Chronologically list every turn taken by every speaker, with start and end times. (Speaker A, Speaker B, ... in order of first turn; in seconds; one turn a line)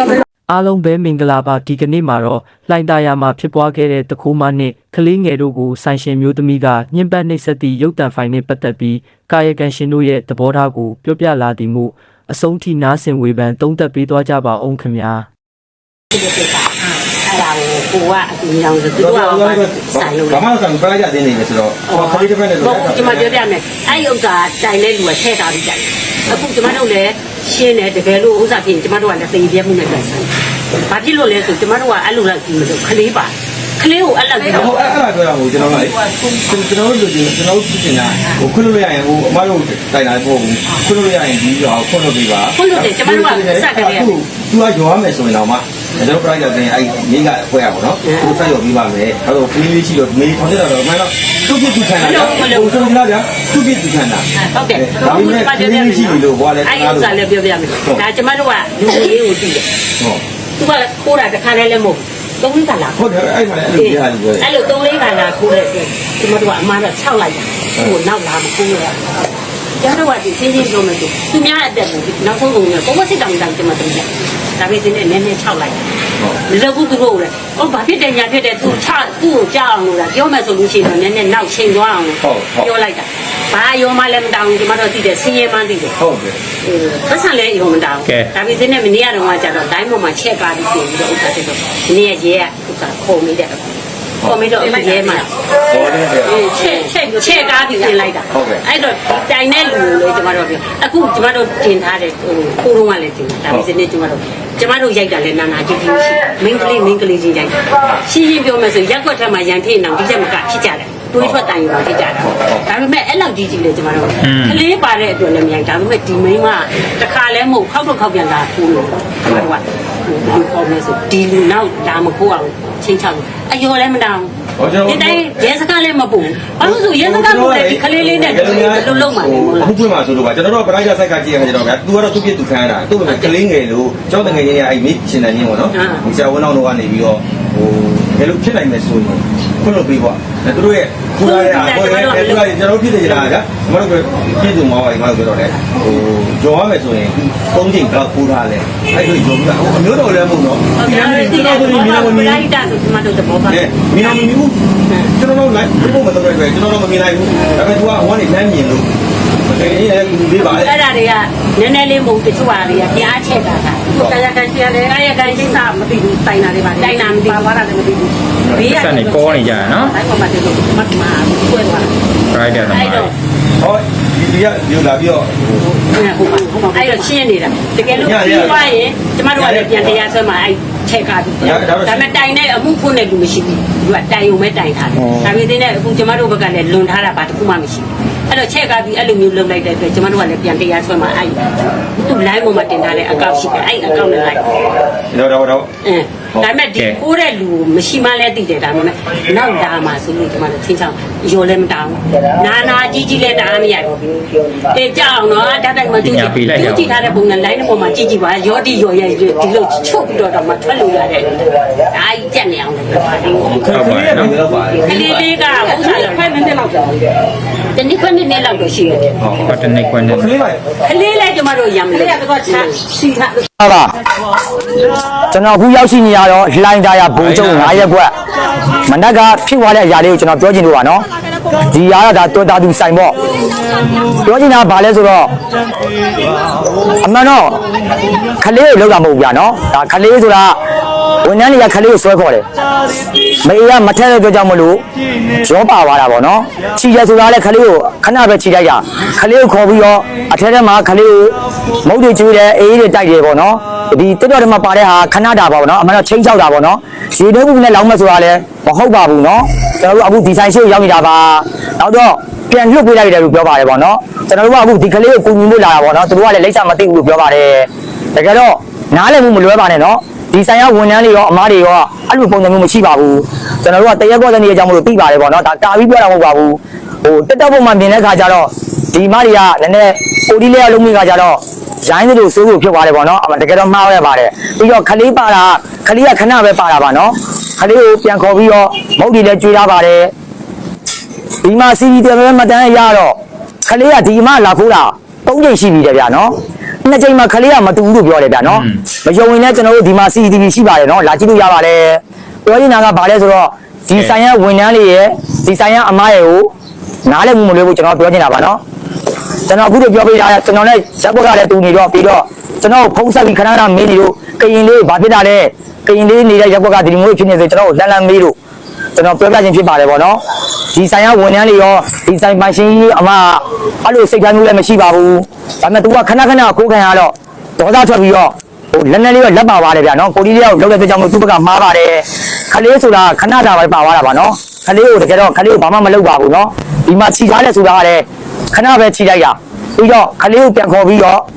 Speaker A: 0.5-15.3
Speaker B: 16.1-20.4
Speaker C: 18.9-23.4
Speaker B: 21.9-30.3
Speaker B: 30.9-34.8
Speaker C: 34.5-57.2
Speaker B: 42.5-44.2
Speaker B: 48.0-48.5
Speaker B: 52.0-52.9
Speaker B: 54.3-59.7
Speaker B: 60.6-63.1
Speaker C: 63.0-64.5
Speaker B: 63.7-69.1
Speaker B: 69.8-75.8
Speaker B: 76.5-86.0
Speaker C: 82.2-82.7
Speaker C: 86.0-86.4
Speaker B: 86.6-95.3
Speaker D: 88.0-88.3
Speaker C: 94.2-94.5
Speaker C: 95.7-96.5
Speaker B: 96.2-124.3
Speaker C: 98.3-98.6
Speaker C: 112.3-112.6
Speaker D: 114.2-114.6
Speaker C: 124.6-125.6
Speaker B: 124.8-129.8
Speaker C: 126.6-152.4
Speaker B: 133.0-133.4
Speaker B: 135.7-136.0
Speaker B: 141.2-143.3
Speaker B: 150.8-154.3
Speaker C: 153.5-154.6
Speaker C: 155.1-158.9
Speaker C: 159.4-160.8
Speaker B: 159.8-167.5
Speaker C: 163.9-164.2
Speaker C: 168.4-168.8
Speaker B: 168.5-171.9
Speaker D: 168.6-169.9
Speaker D: 172.3-173.1
Speaker B: 172.6-173.1
Speaker C: 173.6-175.6
Speaker B: 175.6-194.8
Speaker C: 177.9-178.7
Speaker C: 179.3-180.0
Speaker C: 181.4-182.2
Speaker C: 185.0-185.3
Speaker C: 195.1-195.7
Speaker B: 195.8-213.7
Speaker C: 196.3-196.6
Speaker D: 196.7-197.0
Speaker D: 206.0-207.2
Speaker C: 213.3-215.4
Speaker D: 213.7-214.3
Speaker B: 214.8-216.4
Speaker B: 217.7-219.5
Speaker C: 219.2-219.5
Speaker D: 219.4-220.4
Speaker C: 220.2-220.6
Speaker B: 220.8-223.0
Speaker E: 223.6-223.9
Speaker E: 225.3-228.1
Speaker C: 227.1-227.9
Speaker E: 228.9-231.0
Speaker E: 231.7-233.1
Speaker E: 234.2-235.3
Speaker E: 237.0-237.5
Speaker E: 238.4-240.6
Speaker E: 241.2-242.4
Speaker E: 243.4-244.8
Speaker E: 245.4-251.3
Speaker E: 251.8-290.1
Speaker E: 291.4-293.1
Speaker E: 293.6-296.3
Speaker E: 296.8-306.5
Speaker E: 307.1-308.6
Speaker E: 309.5-318.3
Speaker E: 319.0-320.2
Speaker E: 320.7-341.2